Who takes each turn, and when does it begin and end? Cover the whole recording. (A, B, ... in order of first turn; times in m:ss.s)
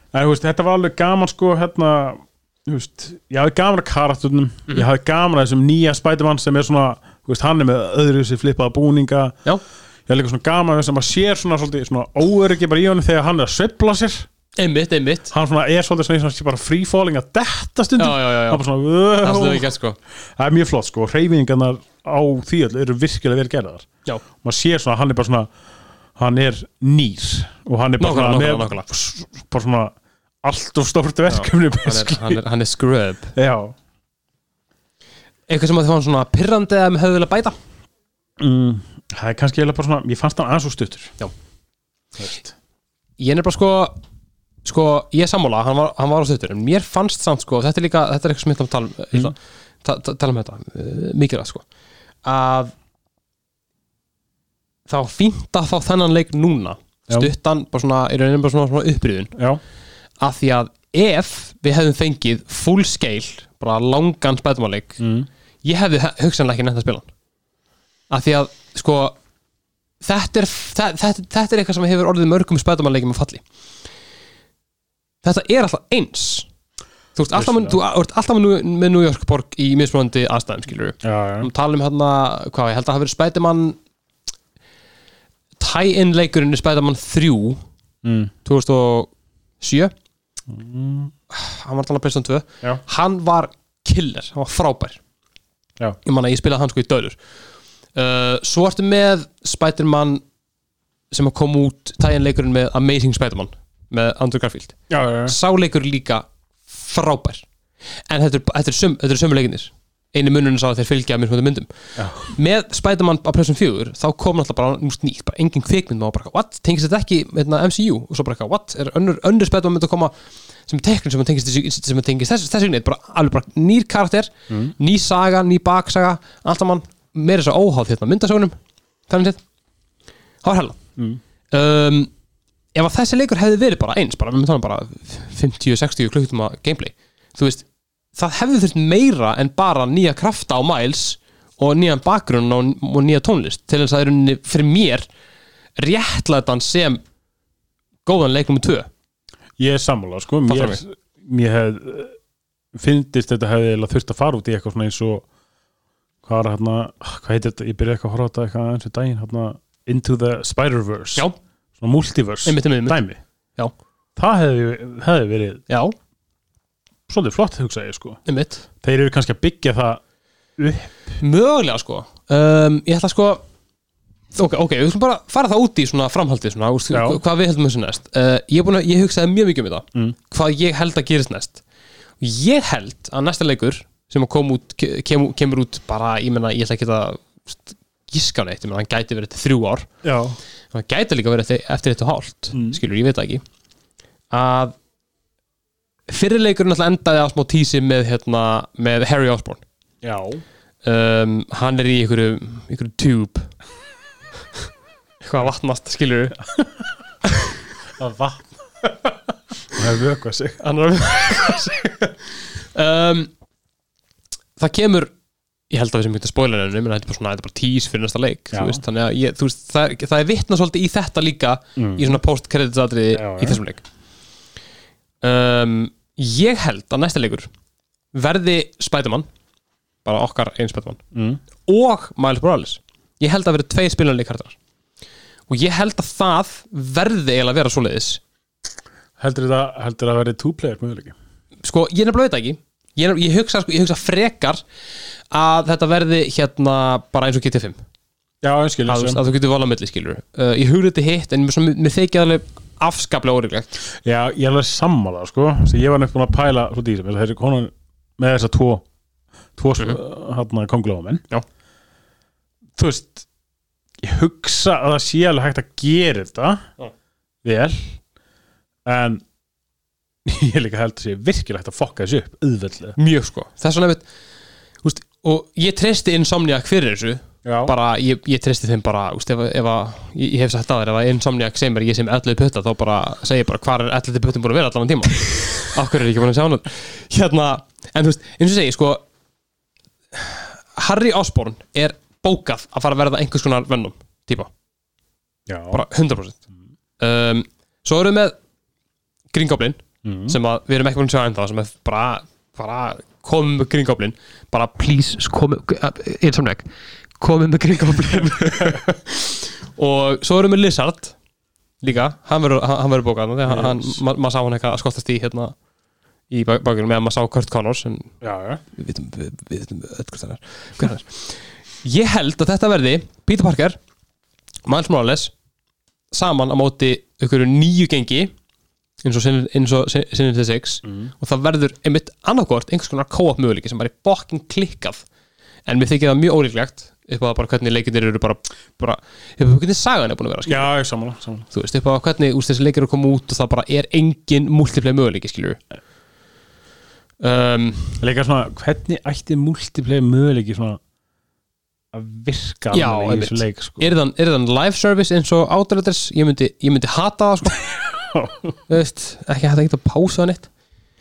0:00.1-0:09.4 A
0:10.1-0:14.3 A
0:14.6-0:15.3 B
0:15.3-0:19.7 A
0:18.0-0:18.6 B
0:19.2-0:20.0 B
0:20.2-0:23.9 A
0:24.4-0:25.5 A
0:26.2-0:32.4 A
0:28.0-0:28.9 B
0:31.3-0:33.3 B
0:33.4-0:33.8 A
0:35.5-0:37.6 B
0:38.4-0:41.2 A
0:42.2-0:42.5 A
0:43.2-0:44.0 B
0:44.6-0:51.6 B
0:52.2-0:52.7 B
0:54.9-0:59.4 B
1:00.2-1:05.0 B
1:05.0-1:05.3 A
1:05.6-1:07.1 B
1:08.1-1:09.2 B
1:10.0-1:13.4 B
1:15.2-1:16.5 B
1:17.2-1:23.8 B
1:17.3-1:17.8 A
1:21.0-1:21.5 A
1:25.6-1:27.6 B
1:28.0-1:28.3 A
1:28.4-1:29.9 B
1:30.5-1:31.1 A
1:31.3-1:35.0 B
1:36.0-1:37.2 B
1:38.0-1:40.2 B
1:41.1-1:47.4 B
1:44.9-1:45.4 A
1:48.1-2:00.1 B
1:52.0-1:52.3 A
2:00.7-2:08.6 B
2:04.5-2:04.8 A
2:09.1-2:09.4 B
2:10.4-2:10.8 B
2:11.5-2:12.1 B
2:12.8-2:25.1 B
2:25.8-2:27.0 B
2:28.1-2:28.9 B
2:29.6-2:32.1 A
2:30.5-2:30.8 B
2:32.7-2:35.3 A
2:36.2-2:41.3 A
2:41.8-2:43.2 A
2:42.5-2:43.0 B
2:44.2-2:45.6 A
2:45.7-2:46.0 B
2:47.1-2:48.2 A
2:48.3-2:48.6 B
2:48.8-2:50.0 A
2:50.6-2:51.2 A
2:51.2-2:53.4 B
2:54.4-3:01.6 B
2:56.9-2:57.2 A
3:02.2-3:09.9 B
3:10.0-3:10.4 A
3:10.7-3:13.4 B
3:12.5-3:12.8 A
3:14.3-3:14.8 B
3:16.1-3:19.6 B
3:20.0-3:20.4 A
3:20.8-3:23.5 B
3:25.2-3:26.4 B
3:27.3-3:27.5 B
3:28.0-3:28.5 A
3:29.7-3:30.6 A
3:30.6-3:33.3 B
3:34.6-3:35.1 B
3:35.7-3:43.8 B
3:38.5-3:38.8 A
3:41.8-3:42.2 A
3:43.1-3:43.6 A
3:45.2-3:47.5 B
3:48.1-3:49.3 B
3:50.0-3:51.0 B
3:51.1-3:51.4 A
3:51.6-3:54.6 B
3:55.5-3:58.2 B
3:59.2-4:01.2 A
4:01.6-4:04.6 B
4:05.3-4:07.8 B
4:08.4-4:09.2 A
4:08.9-4:13.8 B
4:14.0-4:18.8 A
4:19.6-4:21.2 A
4:22.8-4:23.3 A
4:24.0-4:26.6 A
4:27.4-4:28.0 A
4:28.9-4:29.2 A
4:30.2-4:33.0 A
4:33.0-4:34.0 B
4:34.8-4:49.0 B
4:37.4-4:37.7 A
4:50.1-4:54.5 B
4:55.5-4:55.8 A
4:55.7-4:56.4 B
4:57.0-4:58.4 B
4:59.3-5:06.7 B
5:00.0-5:00.4 A
5:07.2-5:11.2 B
5:08.4-5:08.8 A
5:11.8-5:15.6 B
5:13.5-5:14.0 A
5:16.3-5:18.1 B
5:18.2-5:18.6 A
5:18.8-5:23.8 B
5:24.7-5:25.3 B
5:26.1-5:28.3 B
5:29.0-5:35.1 B
5:30.8-5:31.1 A
5:35.7-5:40.7 B
5:40.5-5:41.5 A
5:41.5-5:45.6 B
5:47.2-5:48.0 B
5:48.0-5:50.8 A
5:51.9-5:54.0 A
5:52.7-5:57.6 B
5:57.6-5:58.6 A
5:58.7-6:00.5 B